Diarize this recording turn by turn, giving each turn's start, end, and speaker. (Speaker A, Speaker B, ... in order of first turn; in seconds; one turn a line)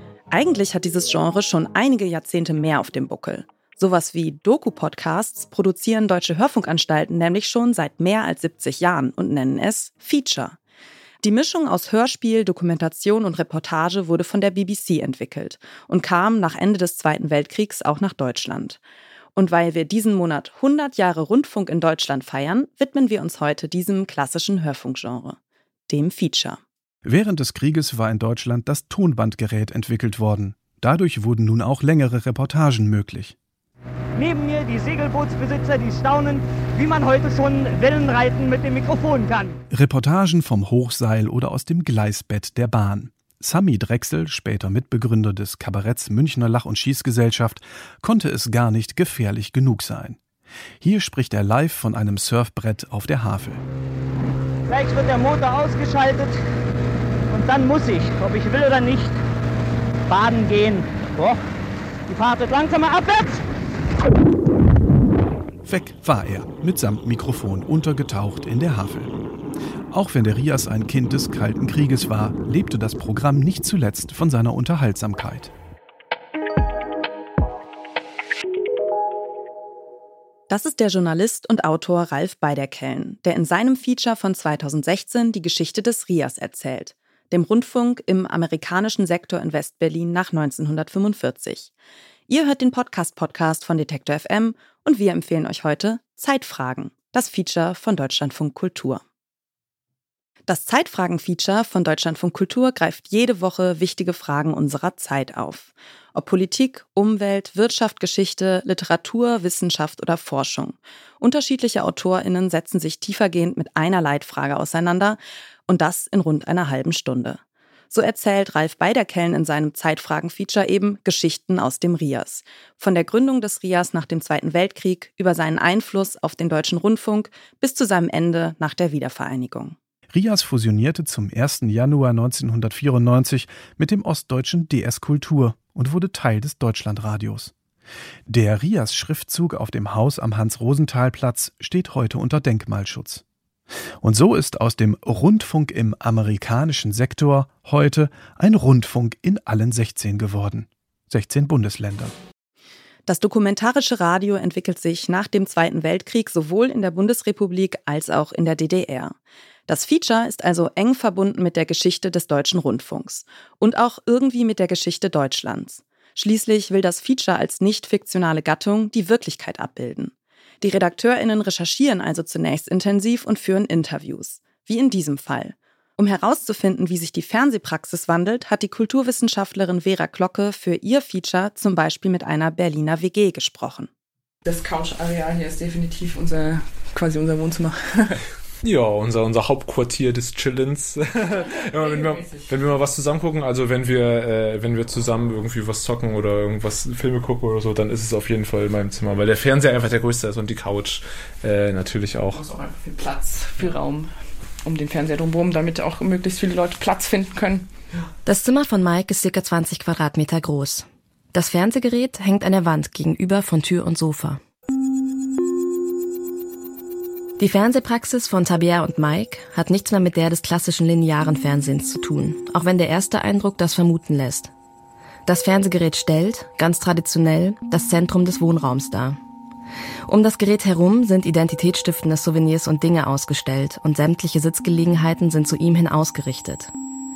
Speaker A: 0.3-10.6
Speaker A: 11.2-18.8
Speaker A: 19.4-26.6
Speaker B: 27.1-33.4
Speaker C: 34.2-39.5
Speaker B: 39.7-50.2
Speaker B: 50.8-53.6
Speaker C: 54.7-56.4
Speaker C: 57.3-59.2
Speaker C: 60.1-61.4
Speaker C: 62.1-63.4
Speaker B: 65.6-69.1
Speaker B: 69.9-75.5
Speaker A: 80.5-91.7
Speaker A: 92.3-99.0
Speaker A: 100.5-117.4
Speaker A: 117.9-129.8
Speaker B: 130.1-137.5
Speaker B: 138.3-143.2
Speaker B: 144.0-152.2
Speaker A: 153.1-159.2
Speaker A: 159.7-183.9
Speaker D: 184.4-188.2
Speaker E: 188.6-202.5
Speaker D: 191.5-192.5
Speaker D: 202.4-207.7
Speaker F: 208.2-214.4
Speaker F: 217.4-224.5
Speaker F: 225.3-229.2
Speaker F: 230.1-236.7